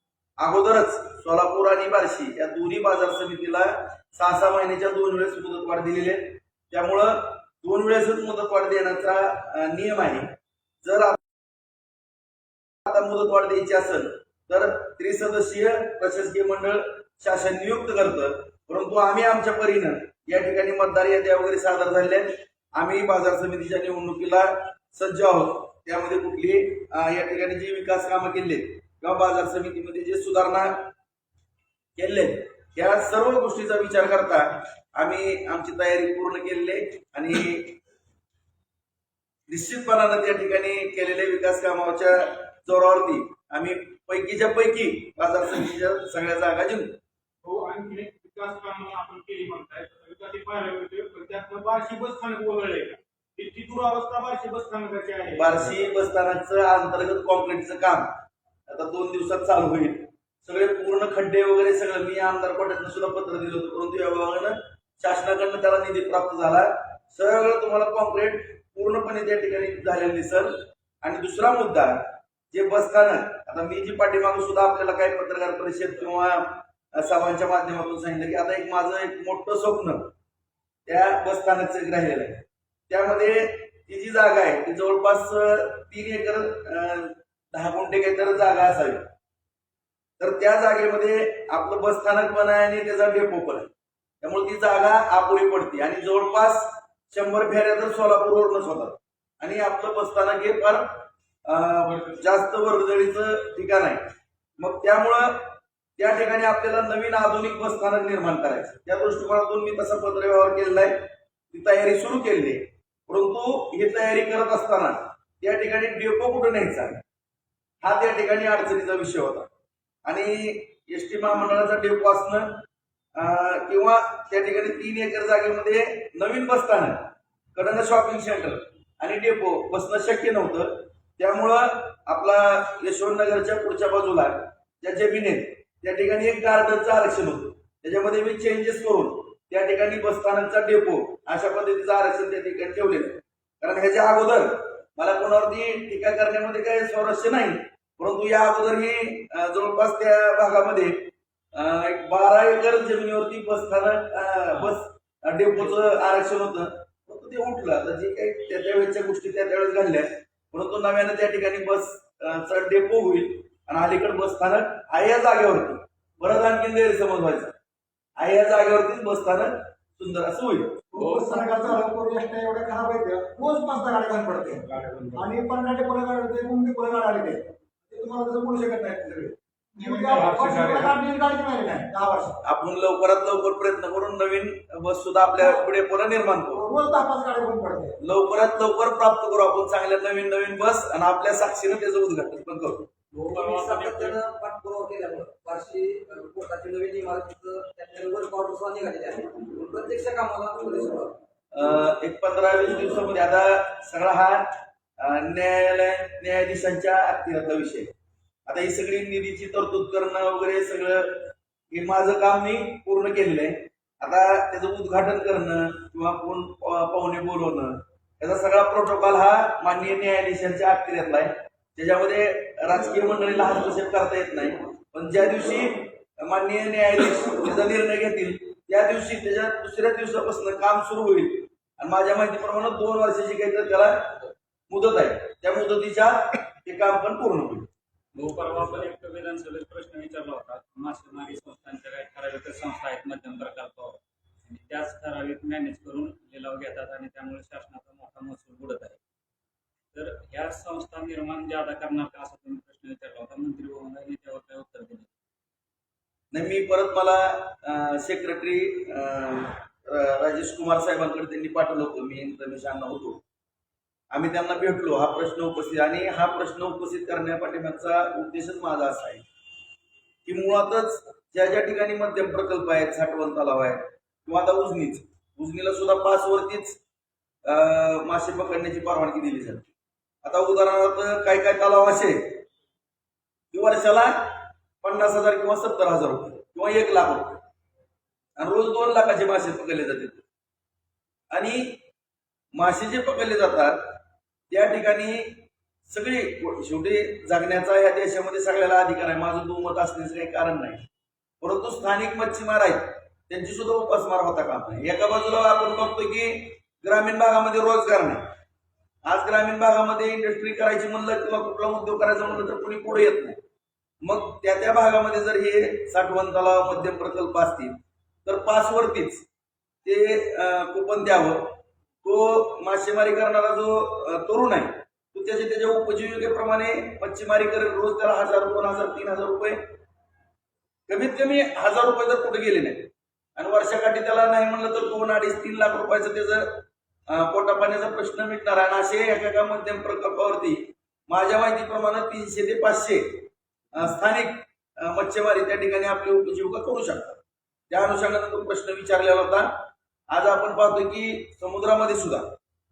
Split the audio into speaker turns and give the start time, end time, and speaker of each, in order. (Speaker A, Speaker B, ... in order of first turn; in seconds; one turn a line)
Speaker A: 0.4-10.3
Speaker A: 10.8-11.4
Speaker A: 12.8-30.9
Speaker A: 32.0-37.8
Speaker A: 39.5-47.0
Speaker B: 47.4-55.8
Speaker A: 55.4-58.1
Speaker A: 58.7-80.1
Speaker A: 80.9-89.1
Speaker A: 90.2-93.7
Speaker A: 94.2-117.0
Speaker A: 117.8-119.5
Speaker A: 120.0-122.6
Speaker A: 123.2-167.6
Speaker C: 154.5-154.8
Speaker A: 168.2-170.8
Speaker D: 170.9-182.4
Speaker C: 171.0-171.8
Speaker B: 174.7-175.2
Speaker B: 179.8-180.9
Speaker A: 182.4-186.6
Speaker D: 186.5-188.0
Speaker A: 188.0-192.9
Speaker C: 193.1-194.2
Speaker E: 193.2-201.2
Speaker A: 201.5-207.9
Speaker A: 208.5-237.7
Speaker C: 238.1-249.0
Speaker C: 249.9-255.1
Speaker A: 256.3-263.2
Speaker A: 264.1-269.2
Speaker A: 270.2-276.8
Speaker A: 277.4-279.7
Speaker A: 280.2-282.4
Speaker A: 283.5-287.4
Speaker A: 288.4-290.2
Speaker A: 291.3-291.8
Speaker A: 292.5-300.9
Speaker A: 301.4-308.3
Speaker A: 309.1-313.4
Speaker A: 314.0-319.3
Speaker A: 319.9-329.6
Speaker A: 330.9-352.4